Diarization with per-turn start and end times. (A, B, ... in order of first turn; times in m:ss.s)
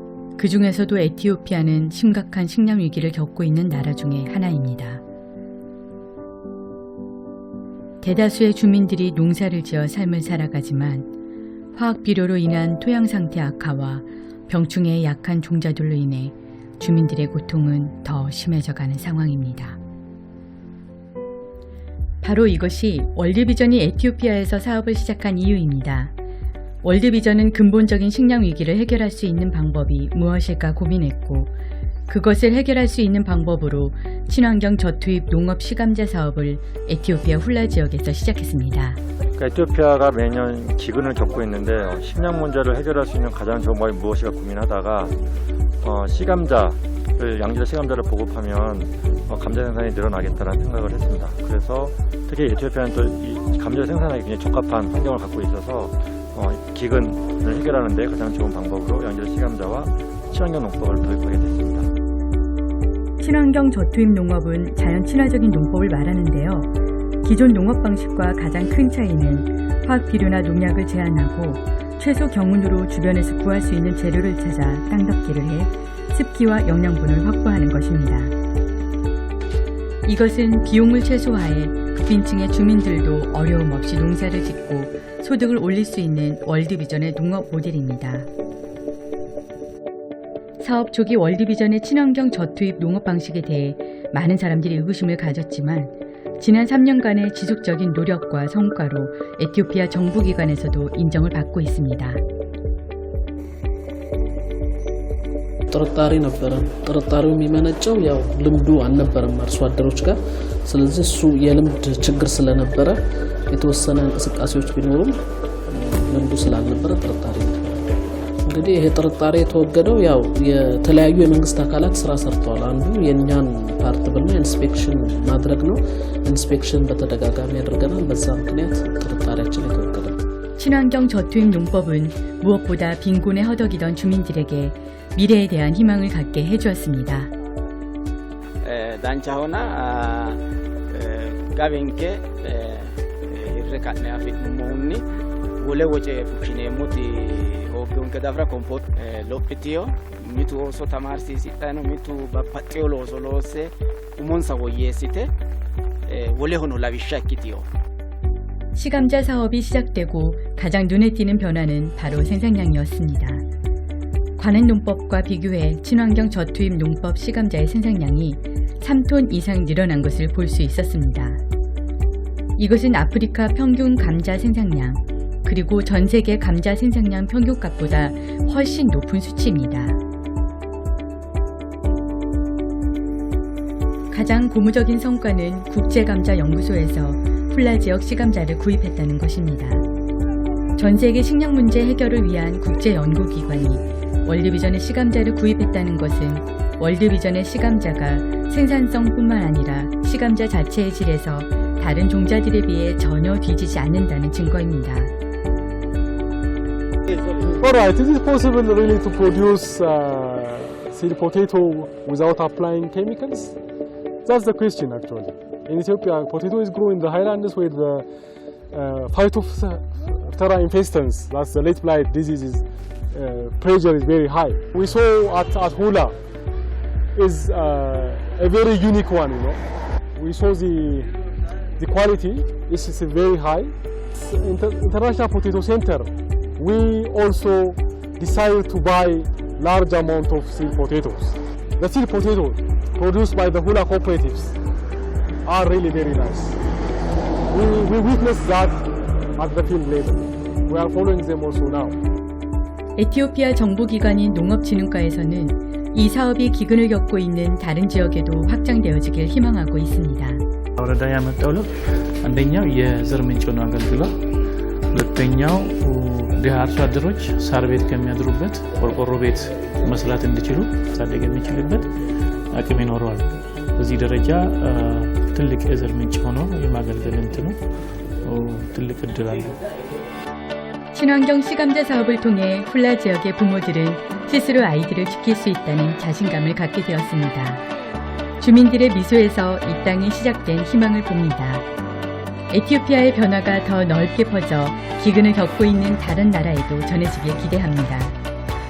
0:00.4-0:05.0 A
0:08.0-0:11.1 A
0:11.7-0:19.8 A
0:22.2-0:26.1 A
0:26.8-0:31.5 A
0:32.1-0:39.0 A
0:39.4-0:45.2 B
0:45.8-1:01.9 B
1:03.2-1:18.4 A
1:20.0-1:28.3 A
1:30.6-1:42.2 A
1:45.7-1:53.0 C
1:53.5-1:57.9 C
1:58.4-2:10.2 C
2:10.6-2:17.3 A
2:18.6-2:25.0 D
2:25.6-2:35.3 D
2:36.1-2:37.7 D
2:38.7-2:43.4 A
2:44.4-2:51.4 A
2:52.6-3:00.0 A
3:04.1-3:09.8 A
3:10.8-3:25.1 A
3:27.5-3:33.6 E
3:34.2-3:38.1 E
3:38.7-3:46.2 E
3:47.1-3:51.1 E
3:51.8-4:04.6 E
4:05.4-4:06.6 E
4:07.5-4:12.0 E
4:13.0-4:20.4 A
4:20.8-4:39.6 F
4:40.9-4:47.6 A
4:48.4-4:51.6 A
4:52.5-4:58.1 A